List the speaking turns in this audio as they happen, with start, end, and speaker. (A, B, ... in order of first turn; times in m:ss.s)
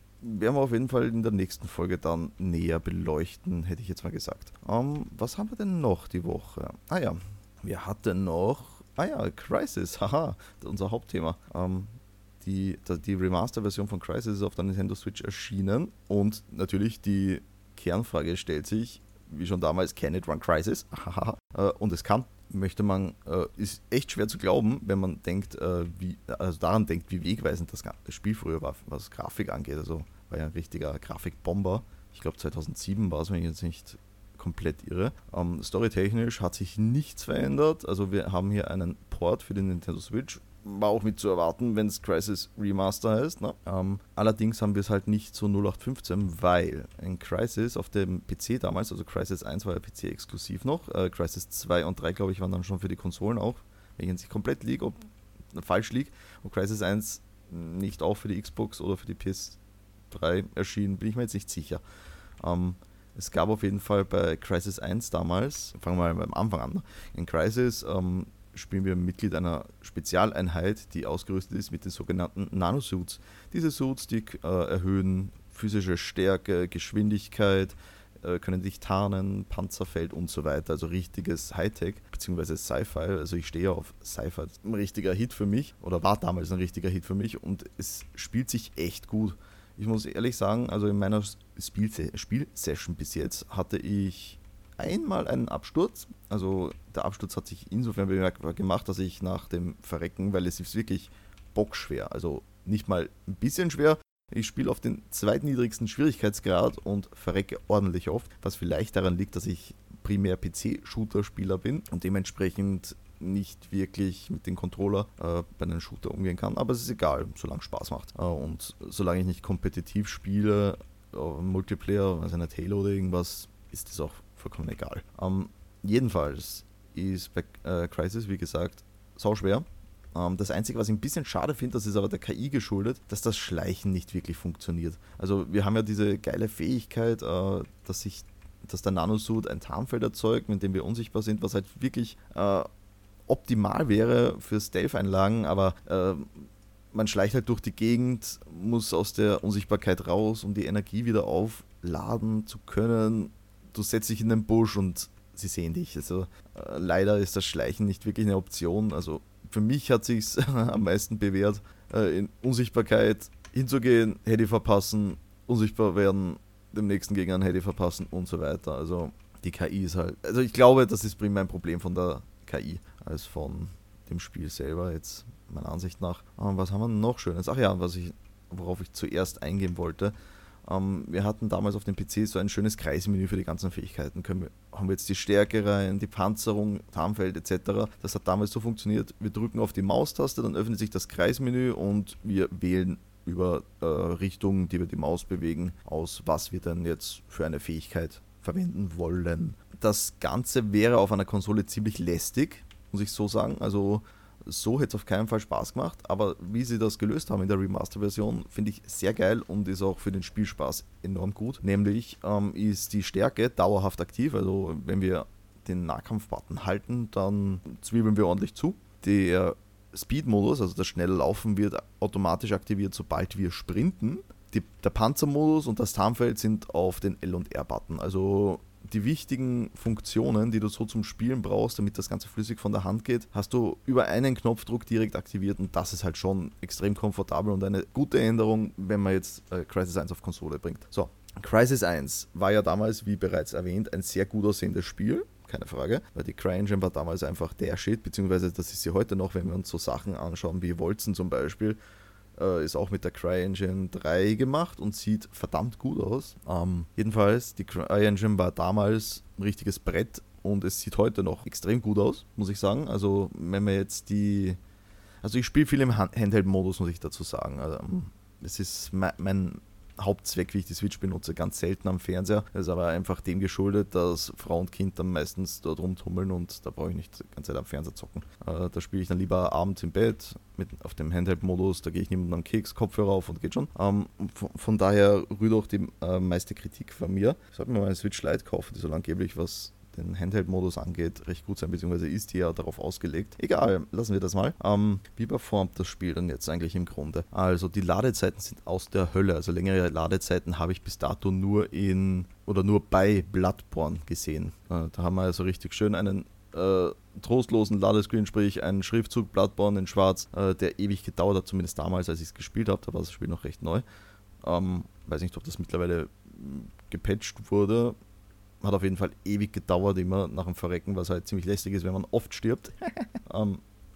0:00.2-0:55.0 A
0:55.5-0:59.6 A
1:00.1-1:01.8 A
1:02.4-2:22.7 A
2:23.3-2:26.3 A
2:26.9-3:00.1 A
3:00.6-4:11.8 A
4:12.4-4:24.6 A
4:25.2-5:13.8 A
5:14.4-5:18.0 A
5:18.6-5:23.6 A